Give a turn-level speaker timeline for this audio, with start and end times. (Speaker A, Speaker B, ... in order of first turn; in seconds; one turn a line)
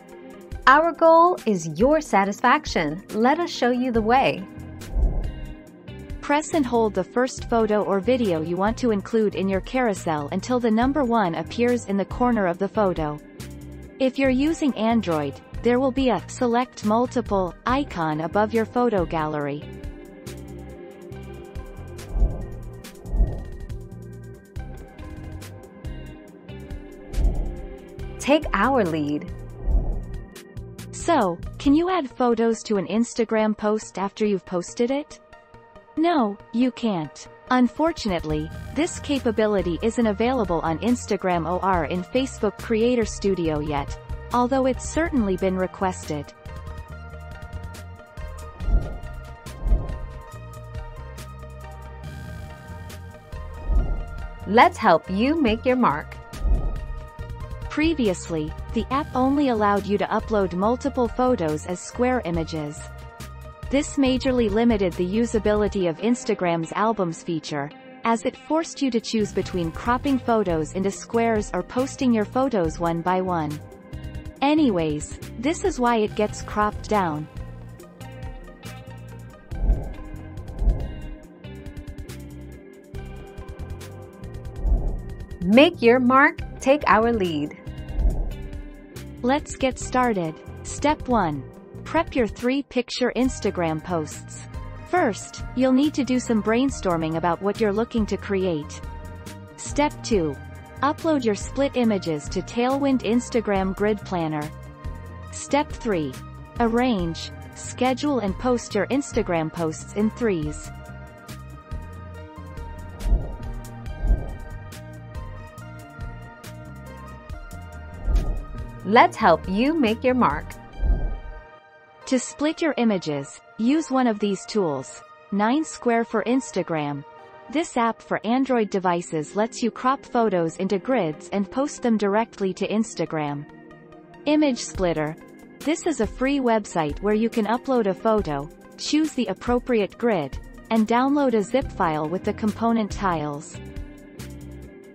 Speaker A: 0.7-4.5
Speaker B: 6.2-13.2
Speaker B: 14.0-19.6
Speaker A: 28.2-29.3
Speaker B: 30.9-35.2
Speaker B: 36.0-46.3
Speaker A: 54.5-56.2
Speaker B: 57.7-62.9
Speaker B: 63.7-73.6
Speaker B: 74.4-77.3
Speaker A: 85.4-87.6
Speaker B: 89.2-98.8
Speaker B: 99.6-104.5
Speaker B: 105.3-110.7
Speaker A: 118.8-120.5
Speaker B: 122.0-133.5
Speaker B: 134.2-143.6